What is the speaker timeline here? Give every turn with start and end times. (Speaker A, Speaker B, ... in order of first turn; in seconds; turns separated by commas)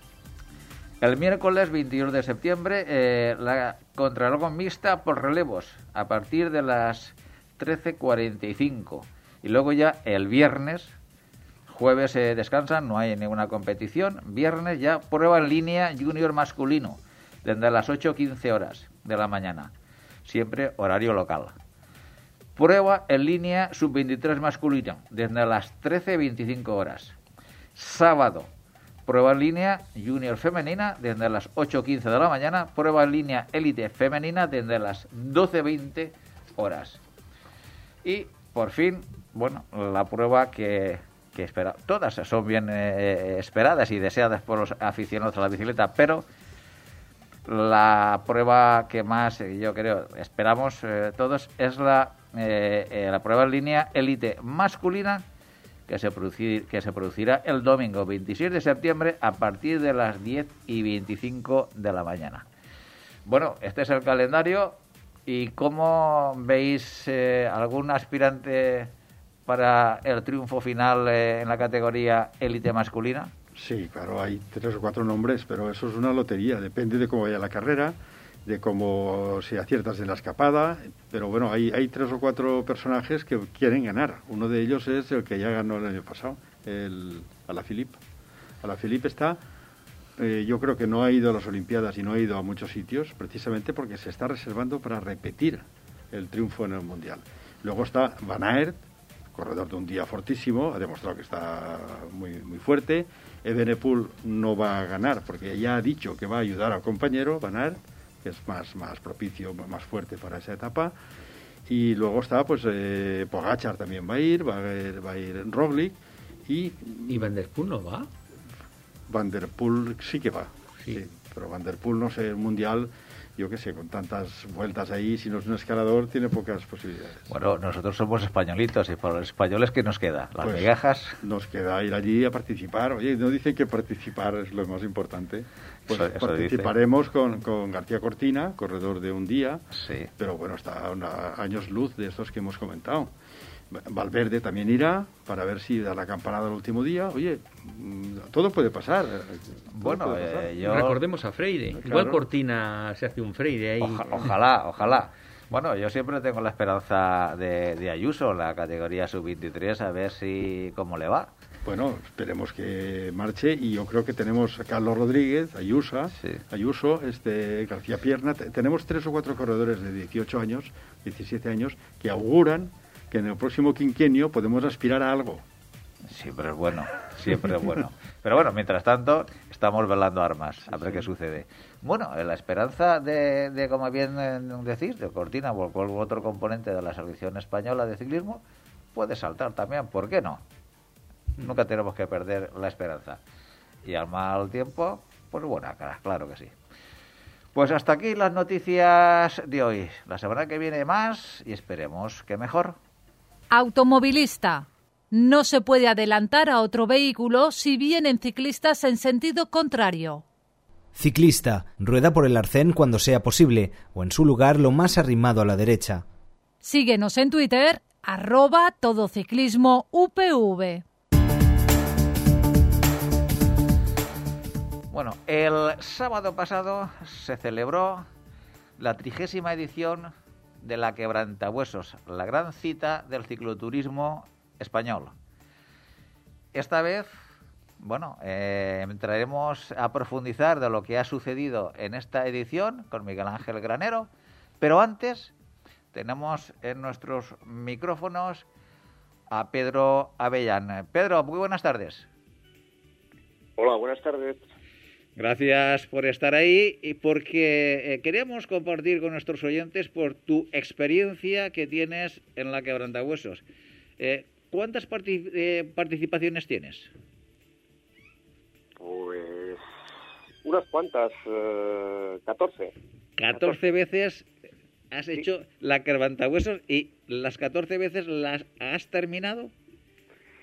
Speaker A: 1.0-11.0, Speaker A: 11.7-19.7, Speaker A: 20.2-21.6, Speaker A: 22.6-27.1, Speaker A: 27.8-28.5, Speaker A: 29.1-37.0, Speaker A: 38.0-46.2, Speaker A: 47.5-55.2, Speaker A: 55.9-62.5, Speaker A: 63.3-68.9, Speaker A: 69.5-73.3, Speaker B: 73.5-88.0, Speaker B: 88.6-89.4, Speaker B: 90.2-98.8, Speaker B: 99.3-110.9, Speaker B: 111.7-117.3, Speaker C: 117.1-118.1, Speaker B: 119.1-127.3, Speaker A: 127.3-131.2, Speaker B: 130.4-139.7, Speaker A: 135.9-136.7, Speaker A: 139.7-140.1, Speaker B: 140.2-143.1, Speaker B: 143.7-150.6, Speaker A: 149.7-151.0, Speaker C: 150.6-154.3, Speaker B: 151.8-152.2, Speaker A: 153.8-161.3, Speaker B: 161.6-175.4, Speaker A: 166.2-166.4, Speaker A: 176.1-188.4, Speaker A: 188.9-190.4, Speaker A: 191.4-193.2, Speaker A: 193.8-196.5, Speaker A: 197.5-202.8, Speaker D: 203.5-210.2, Speaker E: 210.9-216.0, Speaker D: 216.6-220.8, Speaker A: 224.9-228.1, Speaker A: 228.8-235.1, Speaker A: 236.5-237.2, Speaker A: 237.8-244.1, Speaker A: 244.6-245.3, Speaker A: 245.9-248.4, Speaker A: 249.3-252.1, Speaker F: 253.6-254.4, Speaker A: 255.2-263.4, Speaker A: 264.0-266.9, Speaker F: 268.8-269.6, Speaker F: 270.4-272.7, Speaker A: 273.2-274.3, Speaker A: 274.9-279.5